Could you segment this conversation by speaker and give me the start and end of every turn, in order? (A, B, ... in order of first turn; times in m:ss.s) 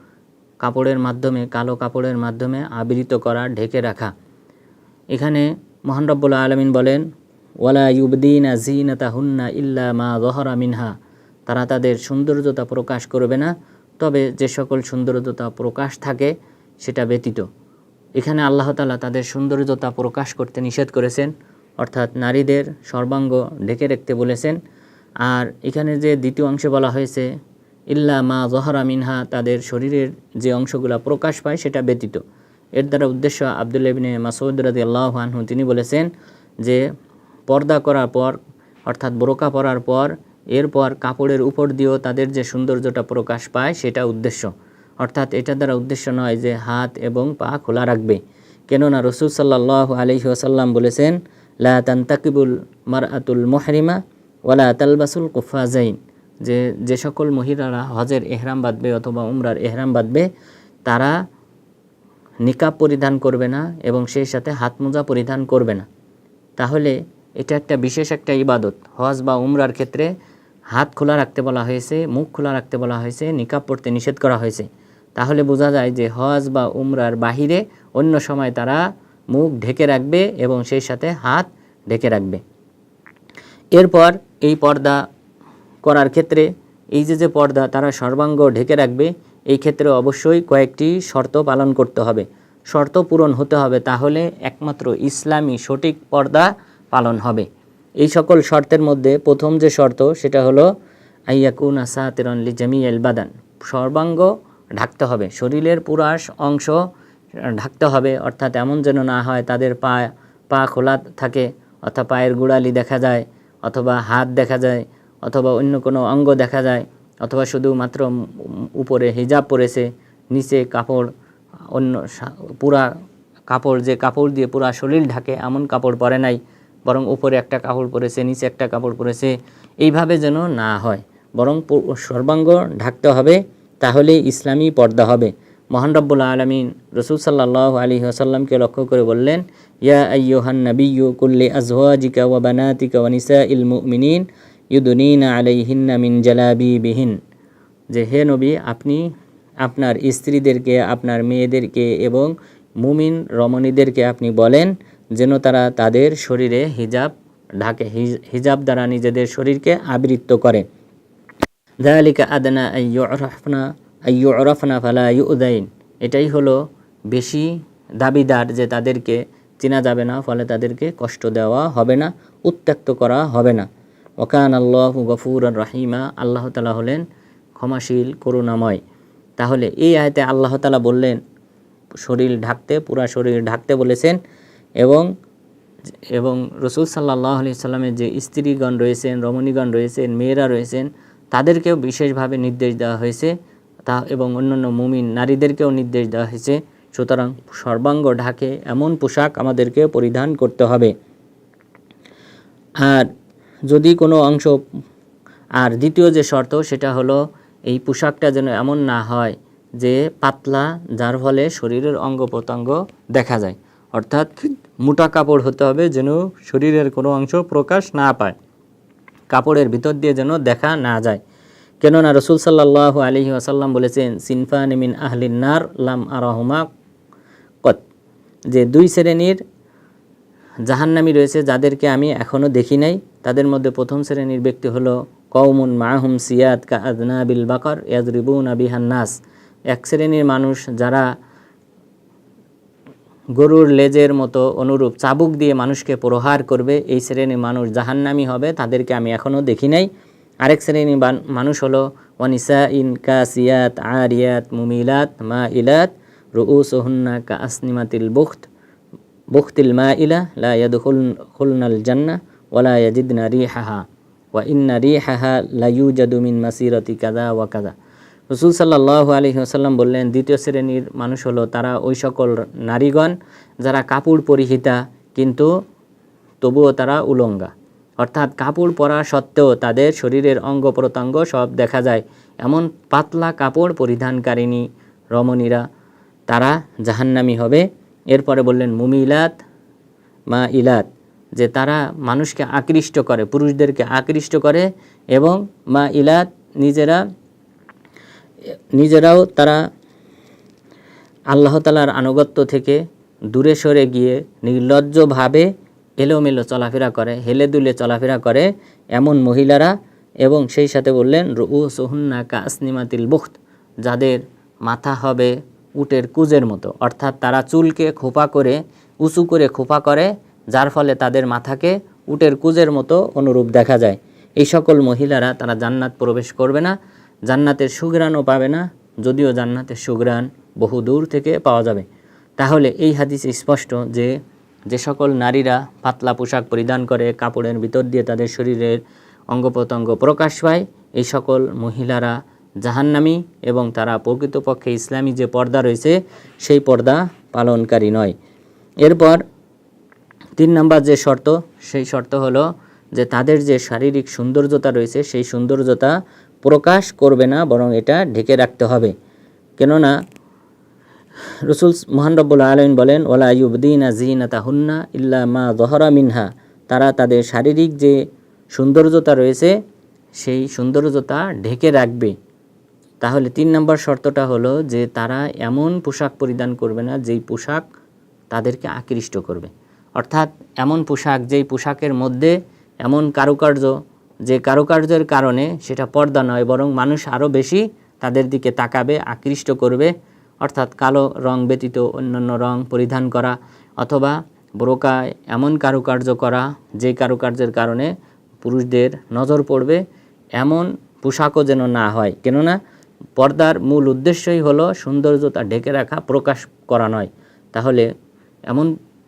0:00.6-0:04.1 A
0:05.1-0:07.0 A
0:07.6-0:10.9 A
0:11.5-0:17.5 A
0:18.2-0:24.6 A
0:25.2-0:27.3 A
0:27.9-0:32.2 A
0:32.8-0:36.1 A
0:37.5-1:00.3 A
1:00.9-1:01.1 A
1:02.4-1:05.9 A
1:06.6-1:10.1 A
1:10.7-1:22.4 A
1:23.8-1:25.0 A
1:25.8-1:37.5 A
1:38.0-1:40.7 A
1:41.3-1:46.8 A
1:47.4-2:01.1 A
2:01.7-2:02.9 A
2:03.5-2:27.2 A
2:27.9-2:29.0 A
2:29.6-2:40.6 A
2:41.8-2:46.6 A
2:47.1-2:47.5 A
2:48.0-2:53.7 A
2:54.2-2:57.0 A
2:57.6-2:58.8 A
2:59.4-3:01.2 A
3:02.0-3:04.2 A
3:04.8-3:05.1 A
3:06.1-3:13.3 A
3:13.9-3:20.9 A
3:22.8-3:23.1 A
3:23.7-3:24.6 A
3:25.6-3:38.4 A
3:39.3-3:41.2 A
3:41.8-3:46.7 A
3:48.5-3:49.4 A
3:50.7-3:59.2 A
3:59.7-4:01.1 A
4:03.4-4:09.9 A
4:10.5-4:18.5 A
4:19.3-4:27.7 A
4:28.3-4:35.5 A
4:36.4-4:45.6 A
4:46.3-4:49.3 A
4:50.3-4:50.9 A
4:51.4-4:57.0 A
4:58.8-4:59.6 A
5:01.3-5:05.5 A
5:06.0-5:09.7 A
5:10.2-5:26.7 A
5:27.3-5:31.8 A
5:32.4-5:34.1 A
5:34.7-5:38.8 A
5:39.3-5:48.1 A
5:48.8-5:49.2 A
5:50.4-5:55.9 A
5:56.4-5:58.9 A
5:59.6-5:59.9 A
6:01.5-6:08.0 A
6:08.5-6:09.5 A
6:10.2-6:12.1 A
6:13.0-6:17.6 A
6:18.3-6:23.7 A
6:24.3-6:39.8 A
6:40.4-6:42.6 A
6:43.2-6:47.9 A